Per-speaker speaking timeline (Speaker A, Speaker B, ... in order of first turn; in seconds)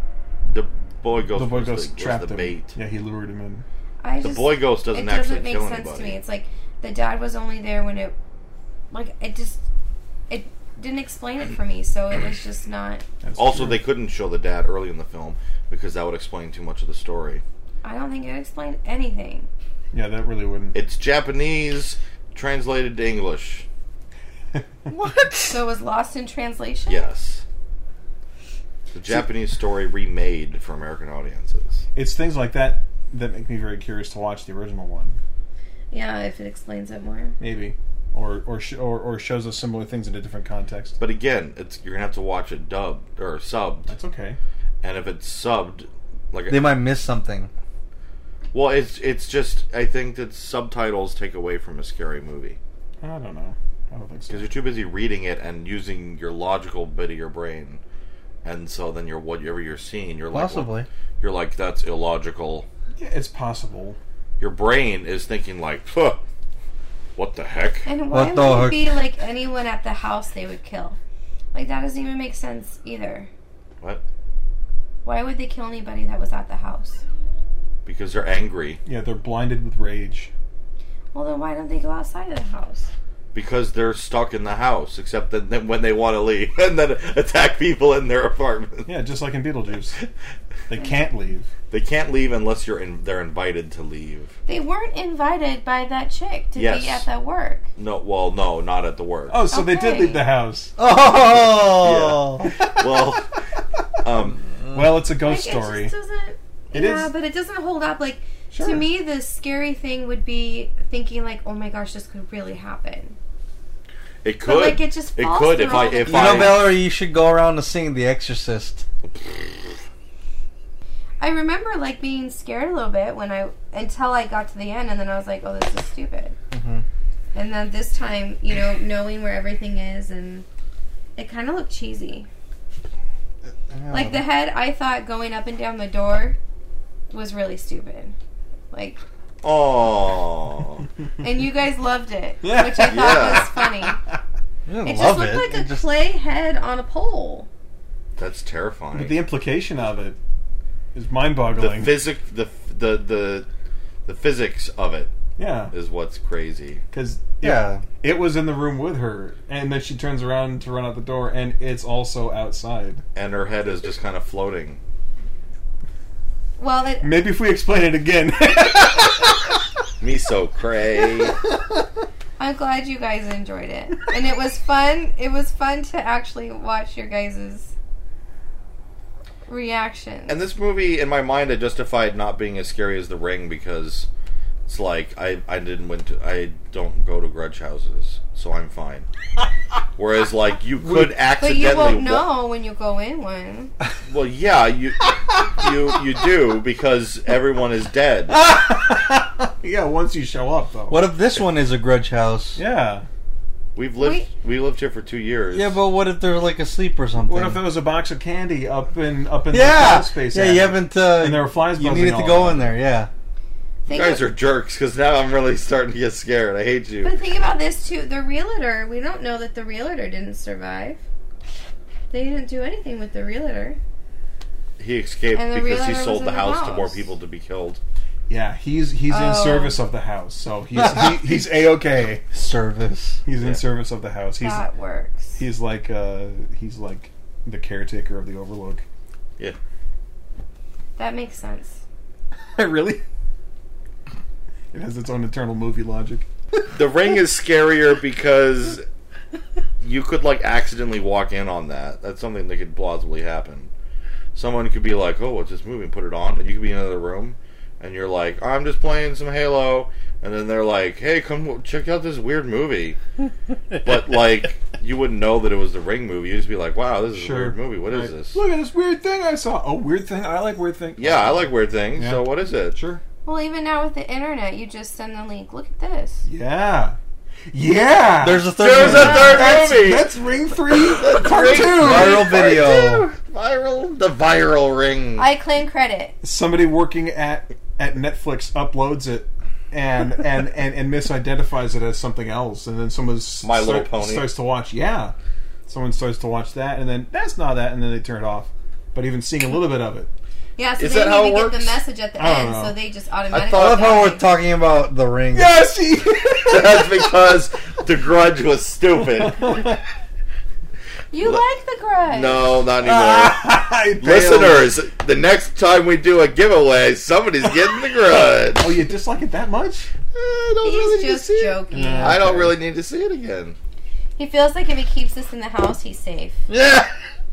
Speaker A: 0.4-2.7, 4.2-6.2, 13.4-17.4, 20.7-23.6, 26.9-27.4, 28.9-31.9, 41.0-43.9, 44.8-46.7, 48.5-52.6, 54.3-57.8, 58.4-62.7, 64.4-66.2, 67.2-67.9, 77.8-78.8, 83.3-88.9, 91.7-94.3, 96.5-97.0, 97.8-99.4, 101.5-103.3, 104.0-104.4, 114.2-116.7, 139.4-140.8, 142.9-143.5, 148.2-149.2, 151.5-153.5, 154.1-155.1, 155.7-156.8, 163.1-164.8, 170.0-171.3, 180.3-184.1, 184.7-189.1, 190.0-192.3, 194.1-198.4, 203.8-205.8, 213.9-217.2, 224.8-227.8, 246.7-248.8, 249.8-253.7, 254.3-263.0, 263.8-268.4, 271.0-272.8, 278.5-280.1, 280.7-285.3, 293.4-294.3, 300.8-301.8, 303.3-303.9, 306.4-309.5, 312.1-318.8, 320.1-323.6, 326.5-326.9
Speaker B: 1.3-3.6, 13.2-13.8, 19.9-20.8, 31.9-35.2, 37.4-41.0, 43.9-44.4, 53.0-54.5, 63.0-64.0, 78.8-80.3, 88.8-90.0, 90.7-91.5, 99.3-100.7, 104.7-105.9, 106.7-107.1, 108.5-108.8, 142.4-143.9, 148.9-150.2, 150.9-152.0, 155.4-155.7, 156.9-163.0, 167.0-169.4, 190.8-191.1, 195.3-195.7, 198.3-201.1, 202.6-203.1, 207.2-212.7, 228.3-232.2, 233.2-234.7, 235.4-238.8, 242.6-243.0, 244.7-246.3, 267.1-273.0, 276.2-276.9, 277.5-282.4, 286.2-295.1, 295.6-300.1, 302.1-302.8, 305.3-307.3, 309.2-309.8, 312.8-314.7, 318.6-319.9, 321.7-322.6
Speaker C: 4.0-8.1, 8.9-9.6, 10.3-13.0, 17.8-19.5, 25.5-27.1, 35.9-37.4, 67.8-71.0, 71.5-73.3, 75.0-77.0, 81.1-82.9, 94.5-97.7, 99.5-100.3, 105.2-113.2, 114.4-116.7, 121.2-126.4, 127.3-130.4, 131.2-132.3, 133.9-136.4, 137.1-138.1, 138.7-139.0, 141.2-144.0, 144.8-147.5, 166.6-167.1, 172.4-177.7, 179.5-180.4, 191.4-193.7, 204.0-204.3, 213.8-214.3, 217.0-221.0, 222.1-223.8, 225.3-227.1, 229.1-229.8, 234.4-235.4, 241.0-241.8, 273.2-276.2, 279.0-279.5, 285.2-286.1, 300.6-304.3, 311.1-312.5, 320.6-322.2, 324.2-326.4
Speaker D: 24.9-25.6, 46.5-47.5, 60.3-60.9, 68.1-68.9, 100.8-102.5, 116.0-118.8, 126.5-126.8, 133.7-134.2, 144.7-145.9, 157.4-157.8, 200.9-202.6, 205.5-207.6, 209.5-213.1, 230.8-231.2, 232.3-233.2, 278.2-279.6, 281.8-283.1, 303.5-305.6